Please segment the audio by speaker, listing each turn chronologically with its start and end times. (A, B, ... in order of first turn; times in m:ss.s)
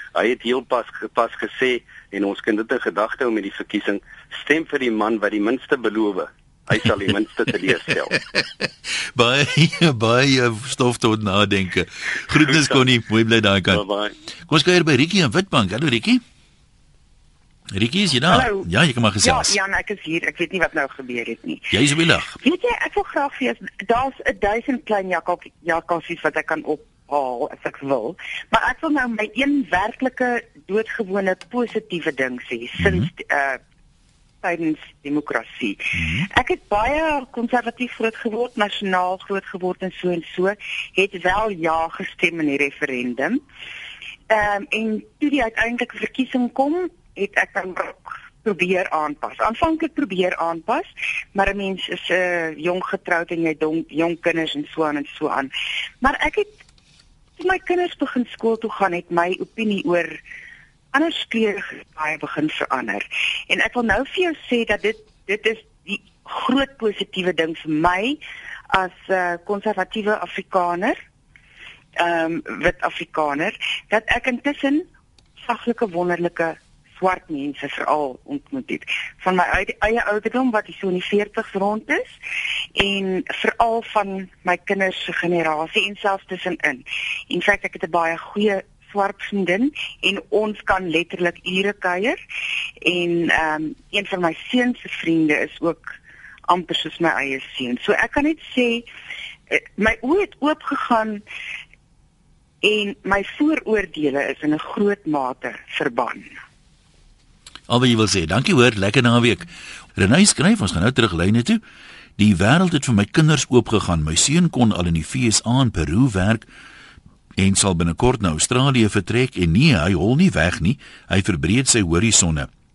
0:00.1-0:08.1 A
0:08.1-0:13.8 B
0:12.4-0:12.8 A
0:13.7-0:14.1 A
0:14.4-0:16.2 B
0:17.7-0:19.6 B
0:18.3-0:18.7 C
0:19.2-0:21.7 C
0:21.7-0:22.4 B
0:22.4-0:33.6 C
0:32.8-0:33.1 B
0:34.4-0:43.4 C
0:35.9-0:36.3 B
0:44.3-0:56.6 C
0:57.4-1:00.2 C
1:00.9-1:08.2 C
1:08.7-1:11.0 C
1:12.0-1:14.9 C
1:15.4-1:22.1 C
1:22.8-1:32.2 C
1:32.8-1:36.0 C
1:36.5-1:38.9 C
1:39.5-1:41.2 C
1:42.6-1:46.3 C
1:47.7-1:51.6 B
1:52.2-1:56.4 B
1:57.4-2:02.5 B